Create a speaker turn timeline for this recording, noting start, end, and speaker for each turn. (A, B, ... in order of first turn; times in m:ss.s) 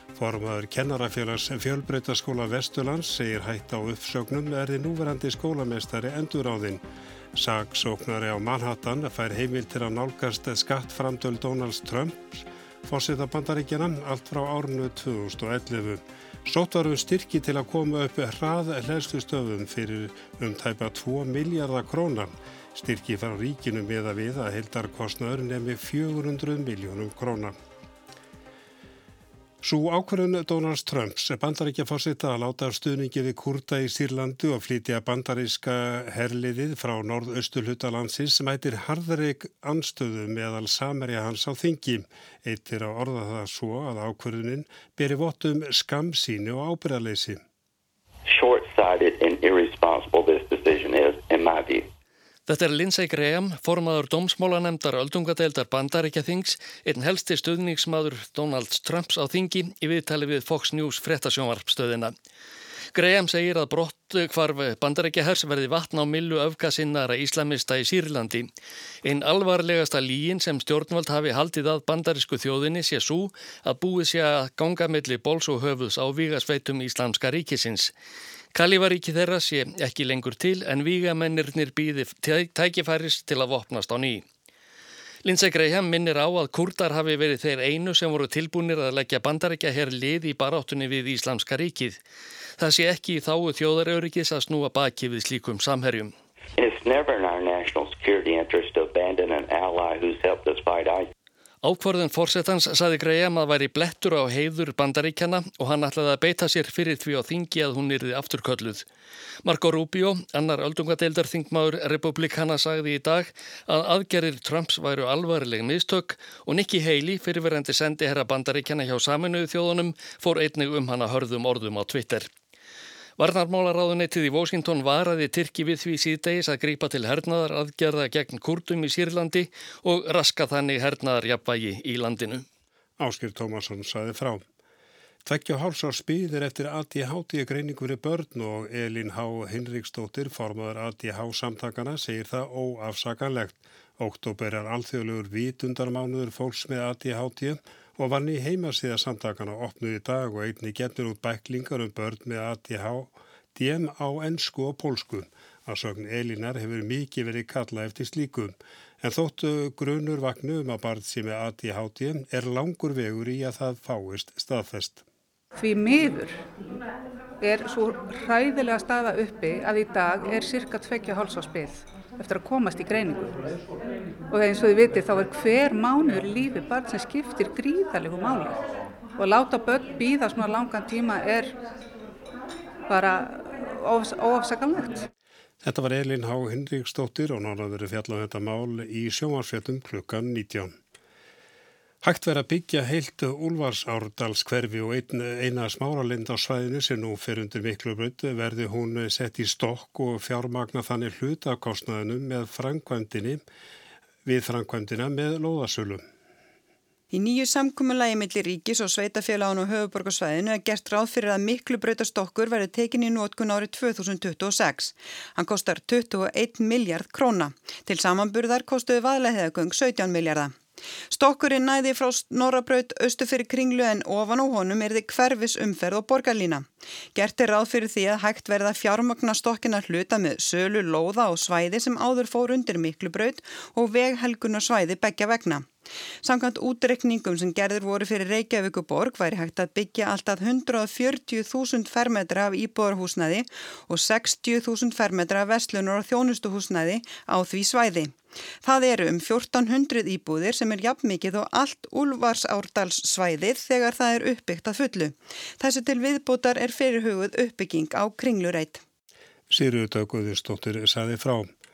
0:00.2-0:06.8 A
0:07.3-0:27.6 A
0:29.6-0:47.4 A
0:48.3-0:51.9 B
0:52.5-1:02.1 C
1:02.9-1:08.5 C
1:09.0-1:17.9 C
1:18.5-1:24.2 C
1:25.2-1:32.0 C
1:32.6-1:36.1 C
1:36.6-1:41.1 B
1:41.6-1:48.9 C
1:49.4-2:02.3 C
2:03.2-2:12.4 C
2:13.0-2:14.4 A
2:15.2-2:45.0 A
2:45.6-2:46.4 D
2:47.4-2:53.4 D
2:54.3-2:58.5 D
2:59.2-3:01.5 D
3:02.9-3:05.1 D
3:05.6-3:10.7 A
3:12.0-3:23.4 A
3:24.2-3:26.0 A
3:27.1-3:40.6 E
3:41.1-4:18.8 E
4:19.5-4:21.5 A